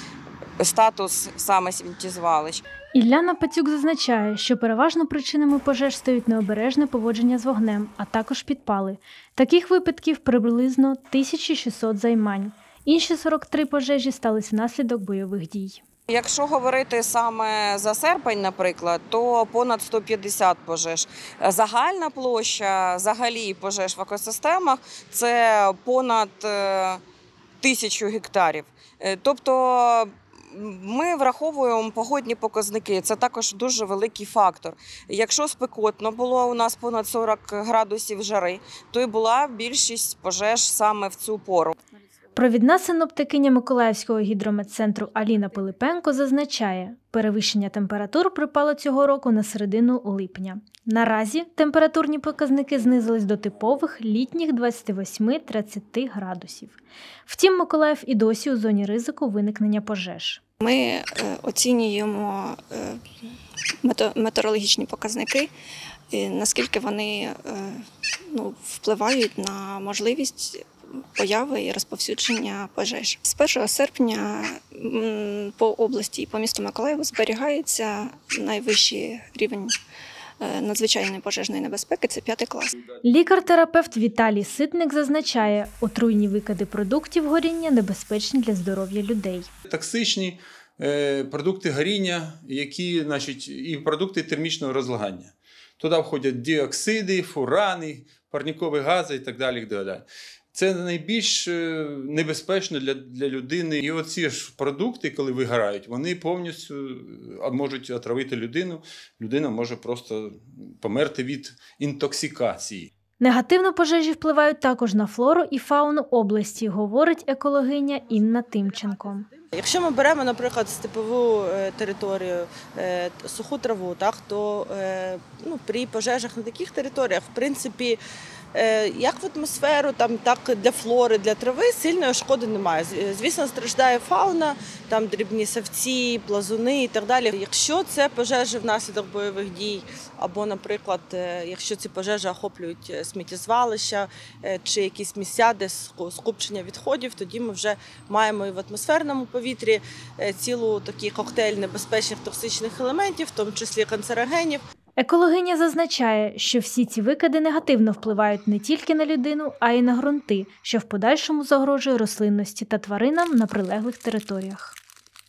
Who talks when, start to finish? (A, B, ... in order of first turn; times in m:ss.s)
0:00.6-0:02.6 A
0:02.9-0:15.8 B
0:16.1-0:27.0 A
0:27.6-0:41.8 A
0:42.4-0:56.8 B
0:57.3-1:00.4 B
1:00.6-1:03.0 C
1:03.8-1:05.5 C
1:06.1-1:19.8 C
1:20.4-1:22.8 C
1:23.0-1:29.5 B
1:29.7-1:52.9 D
1:53.2-1:59.3 B
1:59.5-2:08.0 E
2:08.5-2:34.6 E
2:35.0-2:44.8 B